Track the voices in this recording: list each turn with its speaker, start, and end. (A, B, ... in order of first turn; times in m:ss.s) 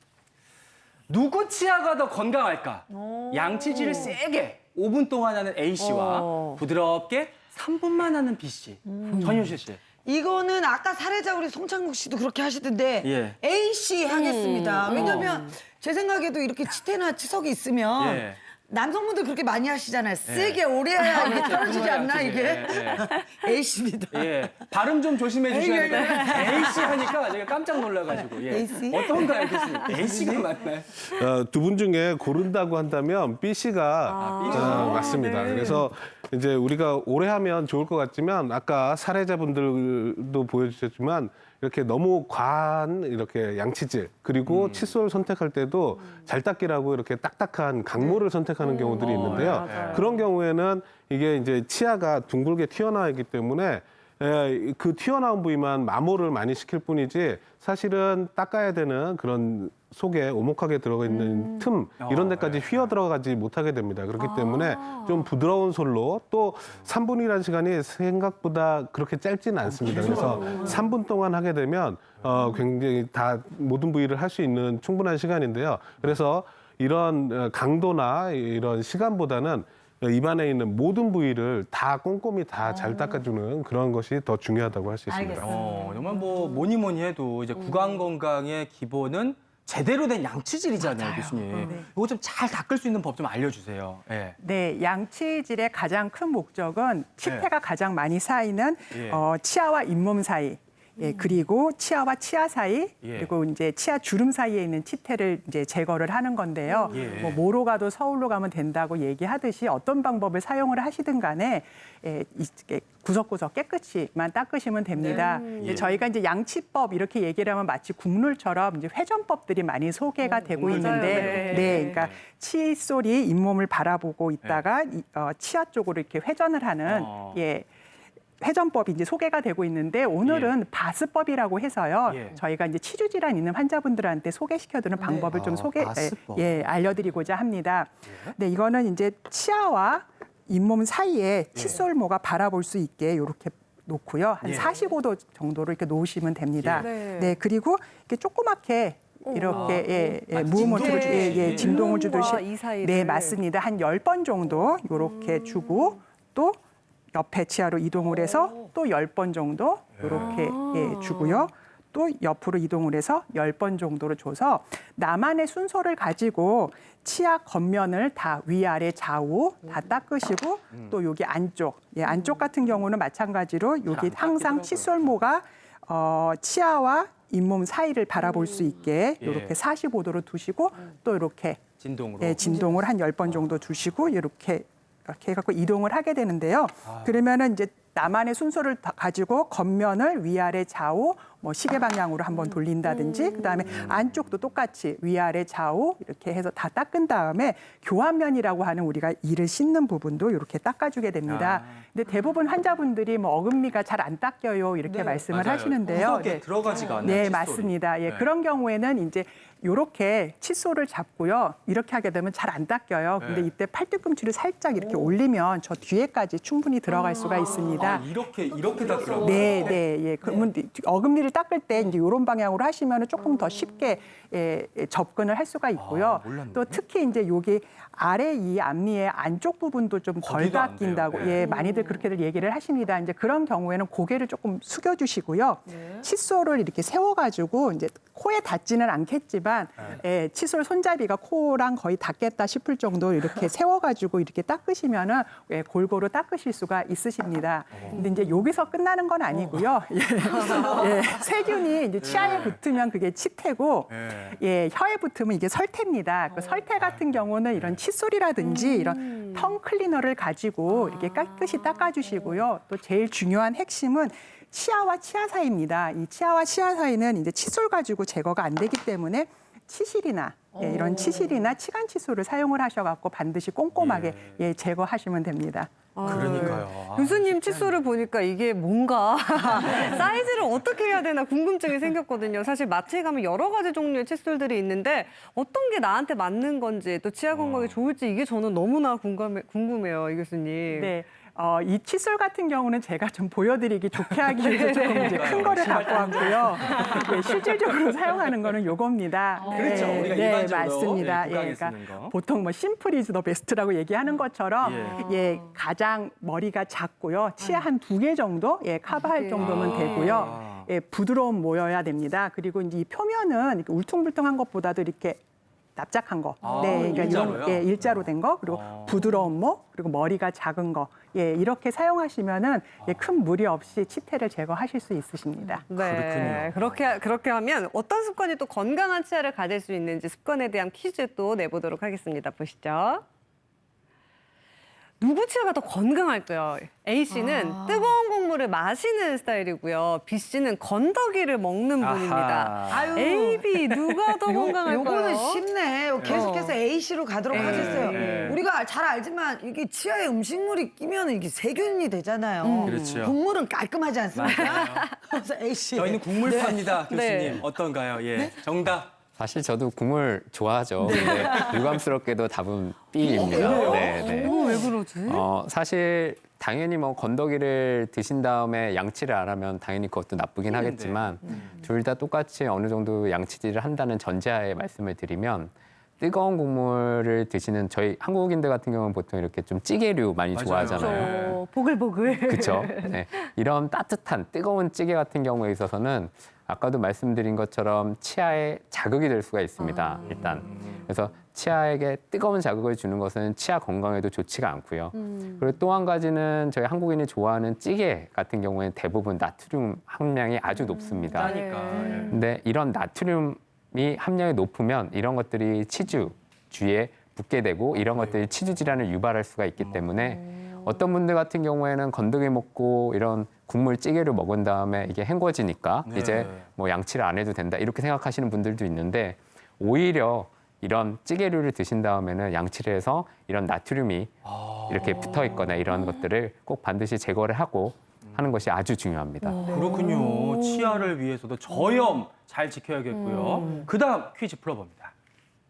0:01.1-0:09.8 A
0:02.9-0:04.1 B
0:05.8-0:06.6 C
0:08.9-0:09.3 B
0:09.1-0:09.6 C
0:10.0-0:24.6 B
0:13.0-0:13.4 A
0:14.1-0:15.6 C
0:14.9-0:15.3 A
0:18.0-0:18.4 A
0:20.2-0:23.0 A
0:21.1-0:21.6 C
0:24.1-0:30.9 A
0:25.5-0:27.2 B
0:25.5-0:26.5 C
0:28.1-0:30.5 B
0:31.0-1:25.5 D
0:34.1-0:35.8 C
0:34.2-0:35.2 A
0:44.4-0:44.9 A
0:48.0-0:50.2 C
0:49.0-0:50.1 A
1:01.1-1:01.7 C
1:02.0-1:03.0 A
1:04.2-1:05.3 C
1:09.8-1:10.8 A
1:25.1-1:25.6 B
1:25.4-1:34.4 A
1:26.0-1:26.4 C
1:30.8-1:31.4 B
1:31.5-1:31.9 E
1:34.4-2:07.7 E
1:37.2-1:37.5 A
1:38.9-1:39.2 A
1:41.0-1:41.3 C
1:43.0-1:43.3 A
1:46.7-1:47.1 C
1:46.9-1:47.4 A
1:55.0-1:55.9 C
1:55.6-1:55.9 A
2:00.3-2:02.2 A
2:00.4-2:02.1 C
2:06.8-2:07.4 A
2:08.4-2:36.6 E
2:10.2-2:10.5 A
2:12.0-2:12.4 A
2:15.0-2:16.6 A
2:18.1-2:18.3 A
2:21.5-2:21.8 A
2:24.4-2:24.7 A
2:26.6-2:26.9 A
2:26.7-2:27.4 C
2:29.3-2:33.4 C
2:29.5-2:32.2 A
2:37.1-3:01.6 E
2:40.0-2:40.4 A
2:40.1-2:41.5 C
2:53.9-2:55.1 A
2:59.2-2:59.5 A
3:01.8-3:02.5 A
3:02.2-3:38.0 E
3:06.8-3:07.1 A
3:21.3-3:21.8 A
3:24.8-3:28.2 A
3:26.7-3:27.0 B
3:33.2-3:33.5 A
3:37.0-3:37.2 C
3:37.2-3:40.4 A
3:39.1-4:36.6 E
3:45.8-3:46.8 A
3:50.2-3:51.5 A
3:51.3-3:52.0 C
4:07.7-4:08.0 A
4:07.9-4:08.4 C
4:10.6-4:11.2 C
4:12.0-4:12.6 A
4:13.9-4:14.4 A
4:16.8-4:17.8 A
4:18.4-4:19.6 C
4:20.7-4:22.4 C
4:30.6-4:31.4 C
4:33.7-4:34.4 A
4:35.9-4:50.9 C
4:36.0-4:37.8 A
4:39.6-4:40.8 A
4:47.3-4:47.8 A
4:50.7-5:15.2 E
4:54.4-4:57.0 C
4:55.0-4:57.7 A
4:59.4-5:00.2 C
4:59.4-5:02.1 A
5:04.6-5:05.0 A
5:04.8-5:05.5 C
5:08.9-5:10.3 C
5:09.4-5:10.7 A
5:15.8-5:25.6 E
5:16.4-5:17.6 C
5:16.4-5:19.0 A
5:19.0-5:19.3 C
5:25.4-5:33.0 C
5:25.7-5:26.9 A
5:35.0-5:45.5 C
5:37.1-5:37.9 B
5:41.8-5:44.5 A
5:42.7-5:43.5 B
5:44.2-5:56.9 B
5:46.0-5:46.3 A
5:46.1-5:46.6 C
5:47.3-5:48.4 C
5:47.3-5:48.4 A
5:52.4-5:52.9 C
5:52.6-5:53.2 A
5:54.1-5:54.8 A
5:54.5-5:55.0 C
5:55.7-5:58.9 A
5:56.8-5:57.4 C
5:59.2-6:21.3 F
6:00.8-6:01.7 A
6:00.8-6:01.6 B
6:03.0-6:04.0 B
6:03.3-6:05.2 C
6:10.4-6:11.5 A
6:20.3-6:21.4 A
6:20.7-6:23.1 C
6:22.2-6:41.4 F
6:29.6-6:30.7 C
6:30.1-6:30.7 A
6:35.0-6:35.5 C
6:40.6-6:42.2 C
6:41.1-6:42.1 A
6:42.0-7:04.1 F
6:47.9-6:48.3 A
6:49.6-6:49.9 A
6:55.8-6:56.5 A
7:04.2-7:05.6 A
7:04.7-7:09.5 F
7:09.2-7:10.8 C
7:09.4-7:14.9 A
7:13.0-7:13.7 C